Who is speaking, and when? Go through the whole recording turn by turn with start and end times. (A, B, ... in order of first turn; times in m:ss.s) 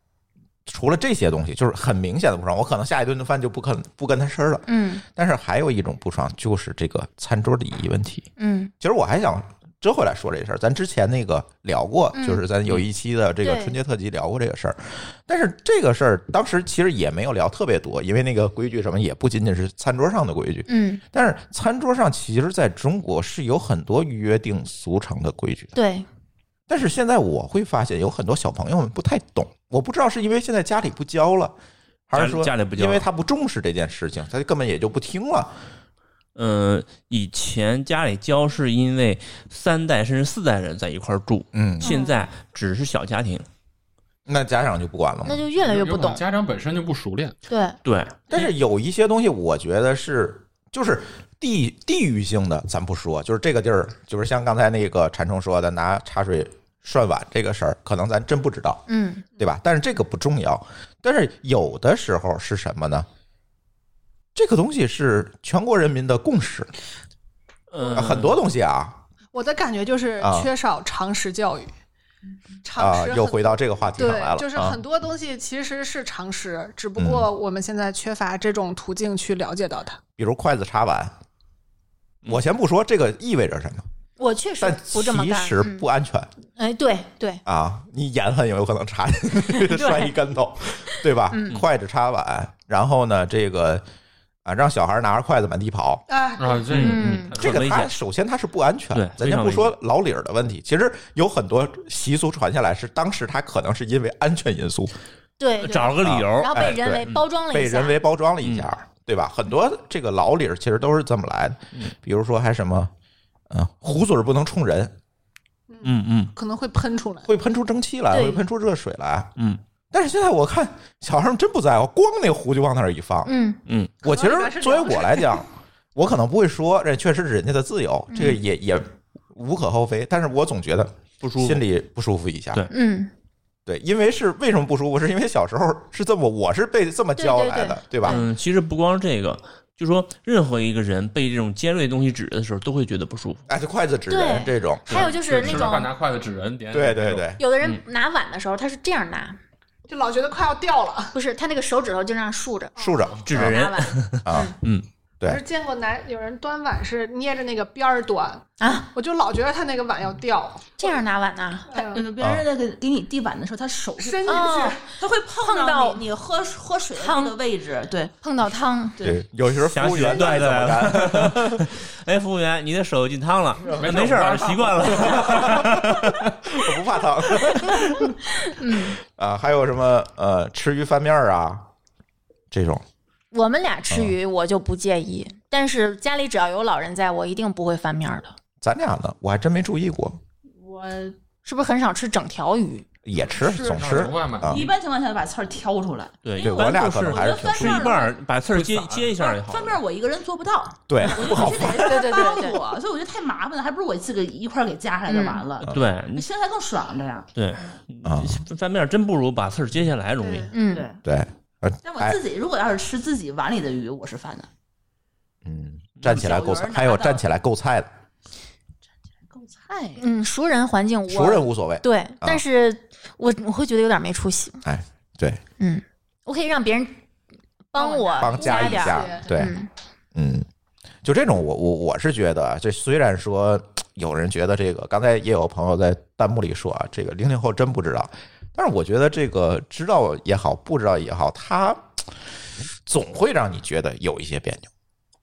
0:00.7-0:08.3 A
0:04.7-0:05.0 B
0:08.4-0:08.7 B
0:08.8-0:25.8 A
0:12.2-0:12.4 B
0:13.4-0:13.8 B
0:20.7-0:21.0 B
0:25.8-0:26.1 B
0:26.7-0:31.5 A
0:32.1-0:35.6 A
0:32.1-0:33.0 C
0:36.4-0:43.5 C
0:41.5-0:42.0 A
0:41.8-0:42.1 B
0:44.3-0:45.4 A
0:45.2-0:46.2 B
0:45.6-0:47.4 D
0:47.5-0:47.8 B
0:47.8-0:48.5 C
0:48.3-0:58.8 A
0:58.9-0:59.2 B
0:59.4-1:03.1 A
1:04.4-1:06.7 A
1:07.7-1:08.4 C
1:07.8-1:08.2 E
1:08.0-1:09.0 A
1:09.3-1:11.7 E
1:10.2-1:10.5 A
1:12.6-1:20.0 E
1:12.8-1:14.8 A
1:17.0-1:17.3 A
1:20.2-1:21.1 A
1:22.3-1:23.8 A
1:24.2-1:25.9 B
1:24.6-1:26.3 A
1:26.5-1:27.4 B
1:27.5-1:33.8 A
1:29.7-1:30.1 B
1:31.3-1:31.6 B
1:34.4-1:36.0 A
1:36.1-1:36.7 E
1:36.4-1:37.9 D
1:36.7-1:37.9 C
1:36.8-1:37.4 B
1:37.4-1:45.0 A
1:38.9-1:39.7 C
1:45.4-1:48.0 B
1:45.6-1:47.2 C
1:46.0-1:52.9 A
1:48.4-1:48.7 C
1:53.5-1:54.9 A
1:55.7-1:57.3 E
1:55.8-1:56.3 C
1:57.2-1:59.3 A
1:58.1-1:58.4 B
1:59.4-1:59.6 C
1:59.9-2:03.3 A
2:03.2-2:03.6 B
2:03.7-2:03.9 C
2:04.0-2:12.6 A
2:04.1-2:05.4 E
2:11.2-2:11.6 C
2:12.7-2:13.1 B
2:13.7-2:18.2 A
2:17.2-2:18.3 B
2:18.0-2:23.4 C
2:23.5-2:25.6 A
2:24.1-2:25.9 B
2:24.9-2:25.5 C
2:25.1-2:27.3 D
2:26.7-2:27.4 A
2:27.4-2:29.4 B
2:29.9-2:31.2 E
2:31.2-2:34.6 B
2:32.8-2:33.1 E
2:32.8-2:33.6 A
2:33.2-2:34.9 C
2:34.2-2:34.6 A
2:35.2-2:41.0 E
2:38.6-2:38.9 B
2:40.8-2:41.8 B
2:41.7-2:42.0 E
2:41.8-2:48.1 F
2:44.0-2:44.8 E
2:44.3-2:46.0 B
2:47.0-2:47.4 B
2:48.2-2:49.0 B
2:49.0-2:51.7 A
2:49.6-2:56.2 C
2:53.7-2:55.5 D
2:54.9-2:58.2 A
2:57.8-2:59.0 B
2:59.0-3:01.7 A
3:02.5-3:02.8 A
3:03.3-3:08.4 B
3:03.9-3:04.2 A
3:08.6-3:10.2 A
3:10.5-3:11.2 F
3:11.4-3:12.9 B
3:13.0-3:14.6 A
3:13.4-3:18.1 F
3:13.6-3:14.7 D
3:16.2-3:19.8 C
3:16.4-3:18.0 A
3:18.5-3:19.1 D
3:19.1-3:27.3 F
3:20.9-3:22.0 A
3:21.7-3:22.6 B
3:25.1-3:25.4 B
3:25.7-3:26.3 C
3:27.4-3:30.5 C
3:28.0-3:28.4 A
3:30.3-3:31.0 F
3:30.5-3:30.9 B
3:31.0-3:32.2 A
3:31.8-3:34.5 F
3:35.4-3:37.9 A
3:36.0-3:36.3 C
3:36.1-3:37.2 F
3:39.2-3:40.0 F
3:40.0-3:44.6 B
3:41.1-3:42.4 A
3:44.6-3:45.4 A
3:45.6-3:47.0 B
3:47.7-3:49.7 B
3:47.8-3:49.3 E
3:48.2-3:49.5 A
3:50.2-3:50.5 A
3:51.0-4:02.1 A
4:02.9-4:04.7 A